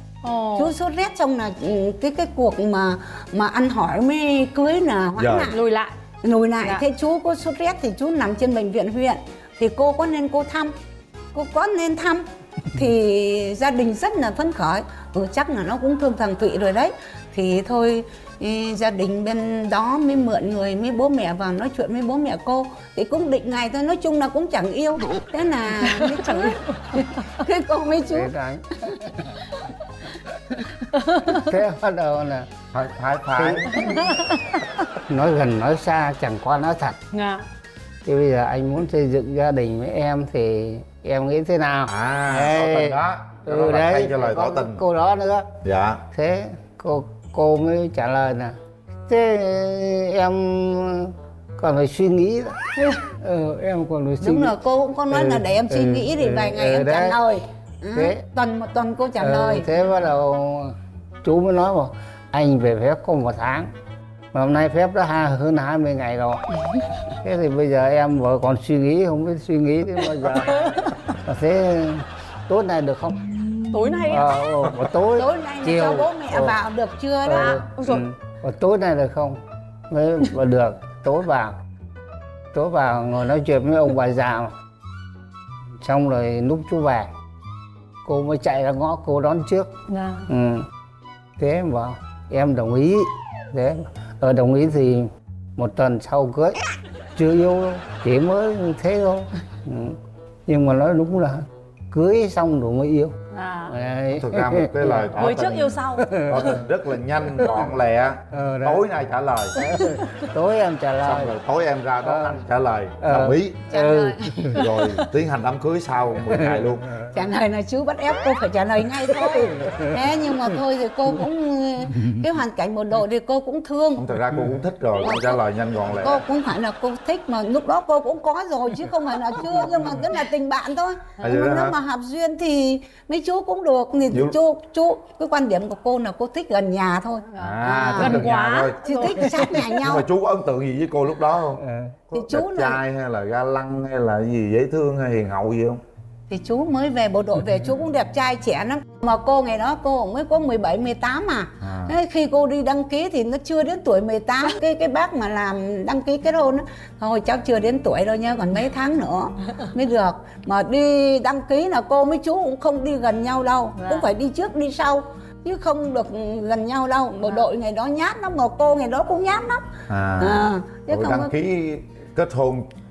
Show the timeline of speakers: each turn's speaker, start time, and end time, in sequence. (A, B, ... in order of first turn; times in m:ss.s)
0:00.2-0:00.7 A
0:00.5-0:05.6 B
0:05.2-0:05.5 C
0:05.5-0:05.9 A
0:06.2-0:10.7 B
0:11.3-0:28.3 B
0:25.8-0:27.0 A
0:28.1-0:29.5 D
0:30.9-0:31.4 A
0:31.2-0:32.6 D
0:32.7-0:34.0 C
0:33.3-0:33.9 D
0:33.8-0:34.4 A
0:35.1-0:37.0 D
0:37.1-0:37.4 A
0:38.0-0:45.6 D
0:41.9-0:44.8 C
0:45.6-0:46.0 C
0:46.1-0:54.5 D
0:54.2-0:59.7 B
0:55.1-0:57.2 D
0:57.9-0:58.2 D
0:59.2-1:03.7 D
1:04.3-1:06.4 D
1:07.2-1:16.6 D
1:10.5-1:10.8 A
1:13.6-1:14.4 A
1:15.1-1:17.6 B
1:17.2-1:19.4 D
1:17.3-1:18.0 A
1:19.9-1:21.6 D
1:22.5-1:24.5 D
1:25.8-1:27.1 D
1:28.0-1:29.7 D
1:29.9-1:30.3 A
1:30.3-1:30.7 D
1:31.4-1:36.6 D
1:37.1-1:43.2 D
1:43.3-1:43.8 A
1:43.7-1:45.2 D
1:44.1-1:49.6 C
1:45.1-1:46.1 A
1:46.0-1:46.6 D
1:47.3-1:47.7 D
1:48.3-1:48.8 D
1:49.6-1:51.3 D
1:49.6-1:50.0 A
1:51.0-1:53.6 C
1:52.0-1:52.4 D
1:53.0-1:54.7 D
1:53.7-1:54.2 B
1:54.4-1:56.9 C
1:54.5-1:54.9 A
1:56.3-1:56.7 D
1:57.0-2:04.0 B
1:59.6-1:59.9 D
2:04.0-2:06.2 C
2:05.0-2:05.4 B
2:06.0-2:18.3 B
2:11.2-2:11.8 C
2:14.1-2:14.4 C
2:17.4-2:25.8 C
2:17.4-2:19.7 A
2:18.8-2:20.1 B
2:21.6-2:21.9 D
2:22.1-2:22.8 B
2:26.3-2:49.6 B
2:31.6-2:31.9 C
2:43.8-2:44.1 A
2:49.9-2:52.7 C
2:50.2-2:51.3 B